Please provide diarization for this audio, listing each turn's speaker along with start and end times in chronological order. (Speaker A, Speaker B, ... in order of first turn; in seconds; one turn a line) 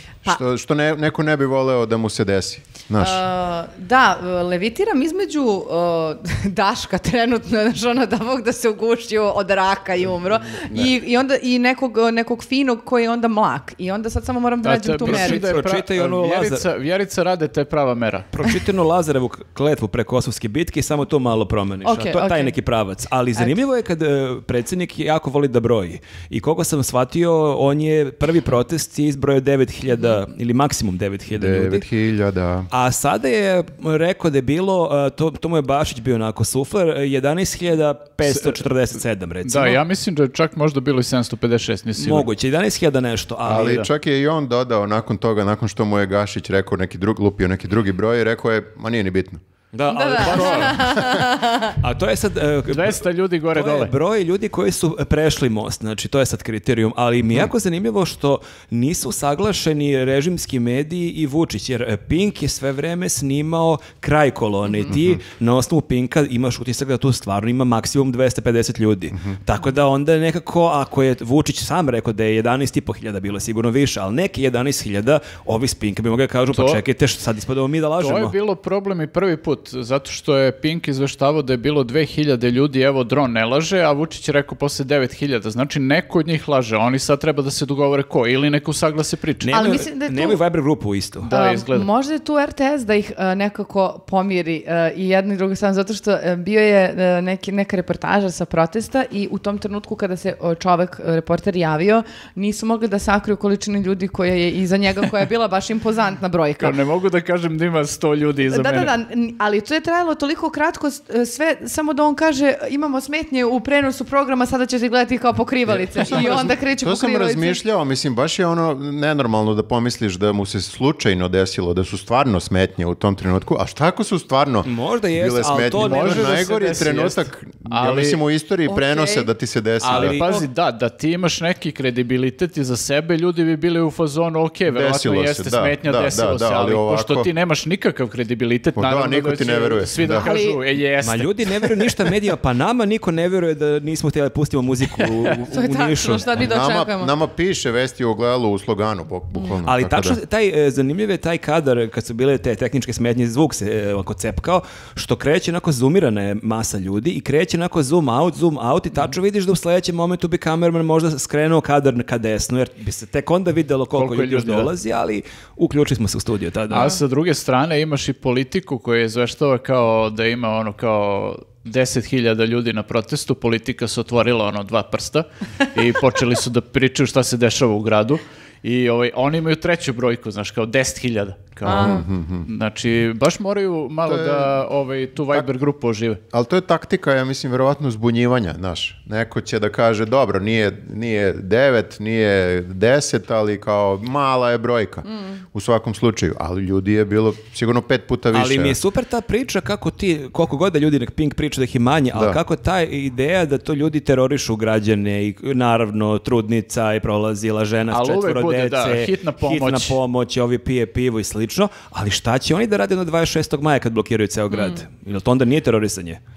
Speaker A: 0.2-3.2
Speaker B: 3.0-15.4
Speaker A: 10.6-10.9
Speaker C: 14.6-18.3
Speaker D: 15.0-16.7
Speaker D: 18.3-31.9
Speaker B: 21.9-22.5
Speaker A: 31.3-32.7
Speaker D: 32.7-39.8
Speaker C: 38.3-38.6
Speaker C: 39.5-42.3
Speaker D: 42.0-43.8
Speaker A: 43.5-49.4
Speaker C: 43.6-43.9
Speaker D: 49.7-50.8
Speaker B: 49.9-51.8
Speaker C: 50.2-50.8
Speaker A: 50.8-51.3
Speaker D: 51.7-78.3
Speaker C: 52.7-53.9
Speaker B: 64.7-64.9
Speaker A: 64.9-65.2
Speaker C: 76.5-76.8
Speaker C: 78.0-89.5
Speaker D: 89.4-91.3
Speaker B: 89.5-90.4
Speaker C: 91.2-91.9
Speaker B: 91.3-106.8
Speaker C: 106.6-108.9
Speaker B: 108.5-117.6
Speaker A: 115.7-130.2
Speaker D: 124.7-126.3
Speaker C: 125.8-128.2
Speaker B: 128.7-129.3
Speaker D: 129.8-130.4
Speaker C: 129.8-142.1
Speaker A: 134.7-137.3
Speaker A: 138.8-140.3
Speaker B: 140.1-140.6
Speaker D: 141.0-146.3
Speaker C: 145.0-145.4
Speaker B: 145.5-147.1
Speaker A: 146.4-150.2
Speaker D: 149.7-167.0
Speaker C: 163.9-164.7
Speaker C: 166.7-186.2
Speaker A: 181.6-182.5
Speaker B: 181.7-182.0
Speaker A: 184.1-184.6
Speaker A: 186.3-198.8
Speaker B: 195.1-195.4
Speaker D: 198.3-216.2
Speaker A: 202.1-202.4
Speaker C: 207.9-210.0
Speaker B: 214.5-214.8